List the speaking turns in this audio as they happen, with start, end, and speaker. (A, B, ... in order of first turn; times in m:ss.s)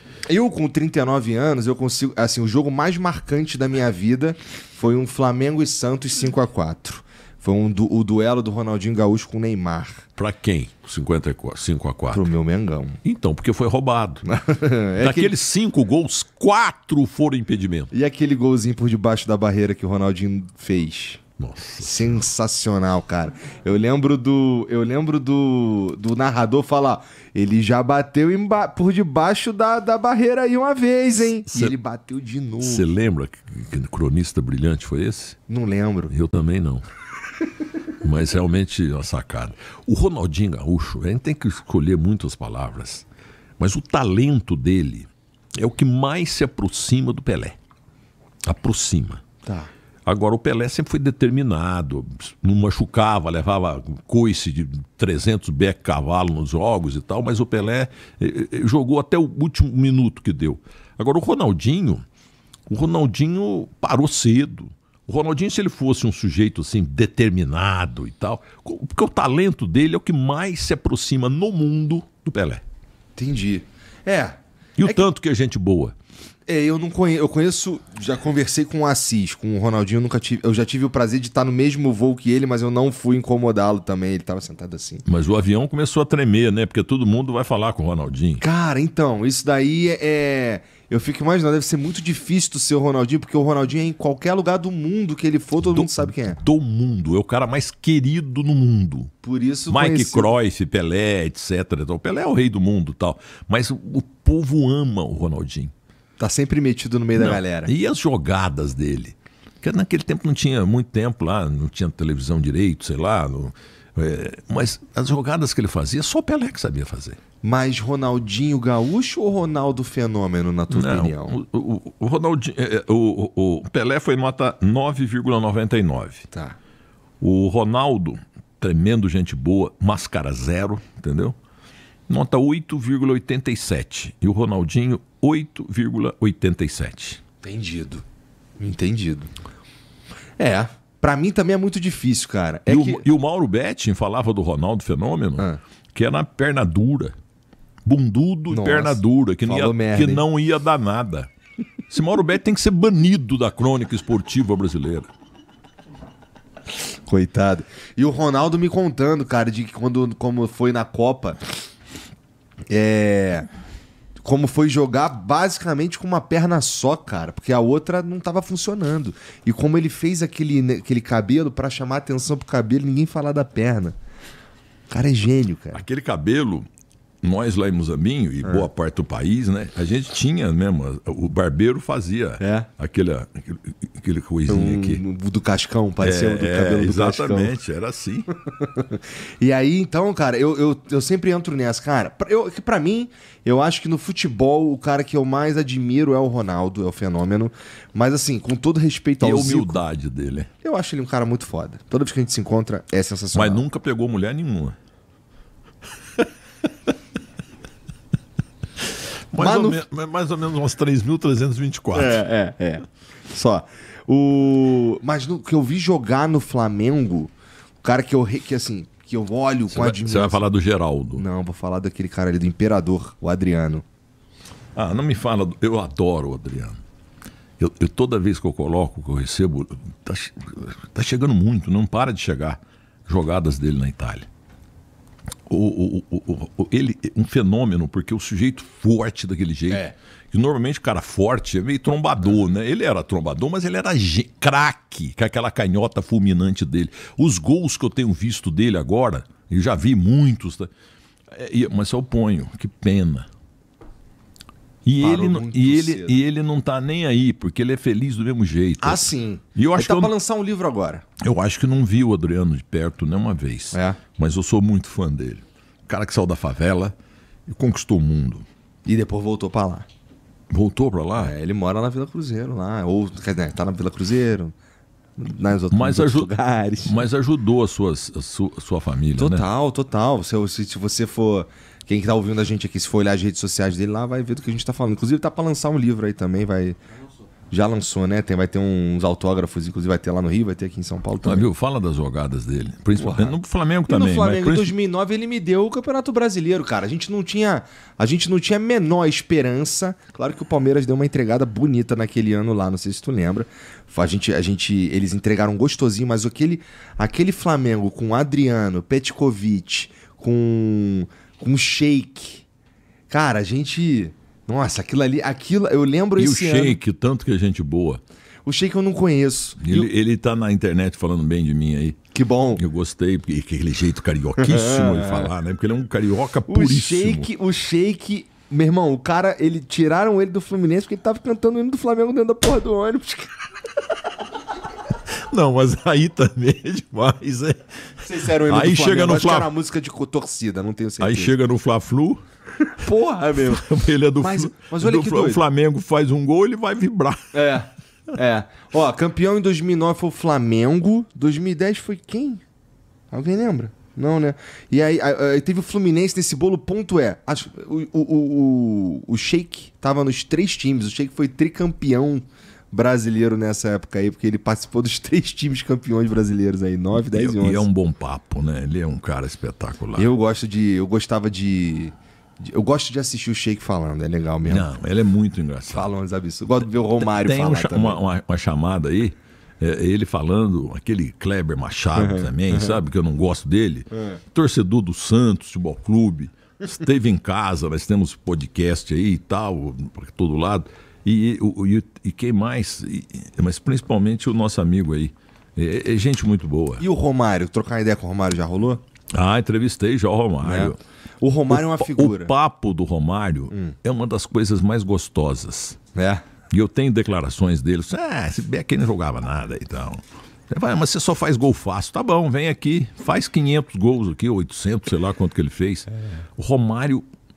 0:00.3-0:10.0 A
0:10.2-0:12.3 B
0:12.1-0:13.0 A
0:13.0-0:14.3 B
0:14.2-0:15.4 A
0:15.0-0:17.9 B
0:17.9-0:21.2 A
0:21.4-0:22.2 B
0:21.8-0:32.9 A
0:31.5-0:31.7 B
0:32.6-0:35.4 B
0:35.5-0:36.1 A
0:36.1-0:36.8 B
0:38.0-0:43.1 B
0:43.6-0:47.6 B
0:48.4-0:49.2 B
0:49.4-0:49.7 A
0:50.1-1:02.0 B
1:02.7-1:12.6 B
1:13.2-1:15.1 A
1:14.8-1:16.0 B
1:16.5-1:25.0 A
1:25.0-1:28.4 B
1:28.4-1:36.4 A
1:35.6-1:39.1 B
1:39.2-1:40.3 A
1:39.7-1:45.7 B
1:46.2-1:47.7 A
1:47.2-1:57.2 B
1:57.4-2:01.4 A
2:00.7-2:06.3 B
2:06.3-2:06.6 A
2:07.2-2:11.4 B
2:12.1-2:17.2 B
2:17.4-2:18.0 A
2:18.6-2:19.3 A
2:20.4-2:23.0 A
2:22.7-2:27.1 B
2:27.9-2:31.3 B
2:28.5-2:30.2 A
2:31.9-2:35.1 B
2:37.0-2:41.5 A
2:42.7-2:43.5 A
2:44.2-2:54.0 A
2:54.9-2:55.8 A
2:55.7-2:56.7 B
2:57.2-3:05.0 B
2:58.4-2:58.7 A
3:02.4-3:02.7 A
3:04.5-3:07.5 A
3:06.0-3:08.3 B
3:08.5-3:19.8 A
3:19.2-3:20.5 B
3:20.6-3:23.6 A
3:23.4-3:24.8 B
3:29.3-3:32.2 B
3:29.4-3:29.8 A
3:31.9-3:40.5 A
3:39.7-3:41.2 B
3:41.2-3:43.8 A
3:44.8-3:46.8 B
3:47.6-3:54.3 B
3:55.5-4:10.7 B
4:11.3-4:13.3 B
4:14.8-4:20.1 B
4:15.0-4:16.2 A
4:18.8-4:21.0 A
4:21.2-4:27.0 B
4:23.7-4:24.0 A
4:27.5-4:28.4 B
4:28.9-4:29.9 A
4:30.5-4:31.3 B
4:31.2-4:34.5 A
4:35.2-4:37.1 A
4:35.7-4:36.3 B
4:36.8-4:39.5 B
4:39.2-4:46.8 A
4:47.5-4:51.5 A
4:51.2-4:54.7 B
4:53.0-5:12.4 A
5:13.1-5:16.8 A
5:16.2-5:18.0 B
5:18.4-5:19.9 A
5:19.6-5:22.0 B
5:22.1-5:22.6 A
5:22.6-5:27.3 B
5:24.4-5:25.3 A
5:26.5-5:33.3 A
5:35.1-5:39.5 B
5:38.0-5:41.4 A
5:41.0-5:42.2 B
5:42.7-5:43.6 A
5:43.4-5:47.2 B
5:44.2-5:45.4 A
5:47.3-5:52.4 A
5:53.1-6:07.7 A
6:07.0-6:10.1 B
6:10.0-6:14.7 A
6:14.4-6:15.9 B
6:15.7-6:18.0 A
6:17.0-6:36.8 B
6:22.0-6:22.8 A
6:36.8-6:38.8 A
6:39.1-6:40.8 B
6:40.4-6:42.3 A
6:41.5-6:45.8 B
6:46.0-6:46.2 A
6:46.5-6:57.0 B